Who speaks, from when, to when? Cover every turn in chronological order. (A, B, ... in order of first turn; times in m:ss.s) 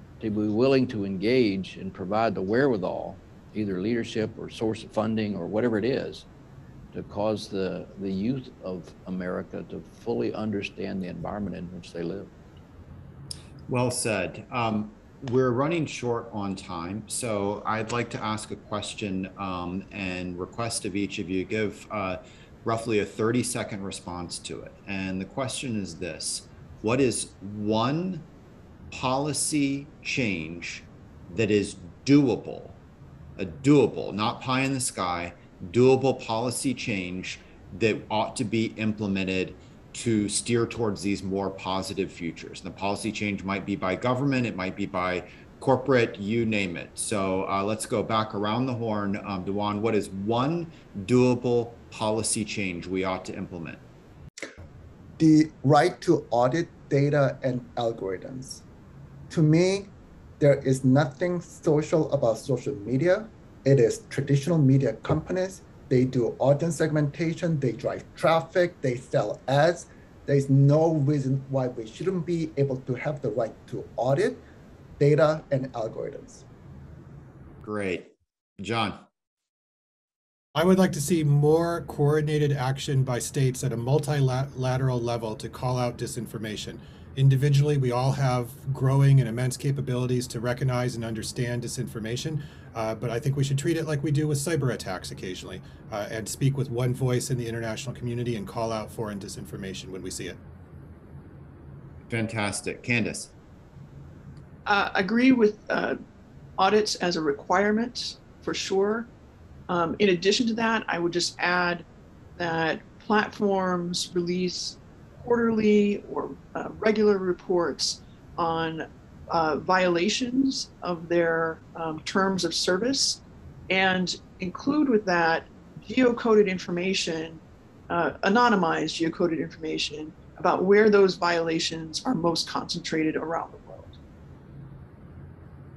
0:00.2-0:06.3 A
0:06.9-0:12.3 A
0:13.7-0:28.3 B
0:28.9-0:32.8 B
0:33.4-0:53.8 B
0:55.2-0:58.6 C
0:59.3-1:14.4 C
1:15.0-1:16.4 C
1:17.6-1:19.0 B
1:20.6-1:40.4 D
1:42.1-1:43.3 B
1:44.7-1:46.0 E
1:46.6-1:49.1 E
1:49.7-1:51.8 E
1:52.4-2:13.9 E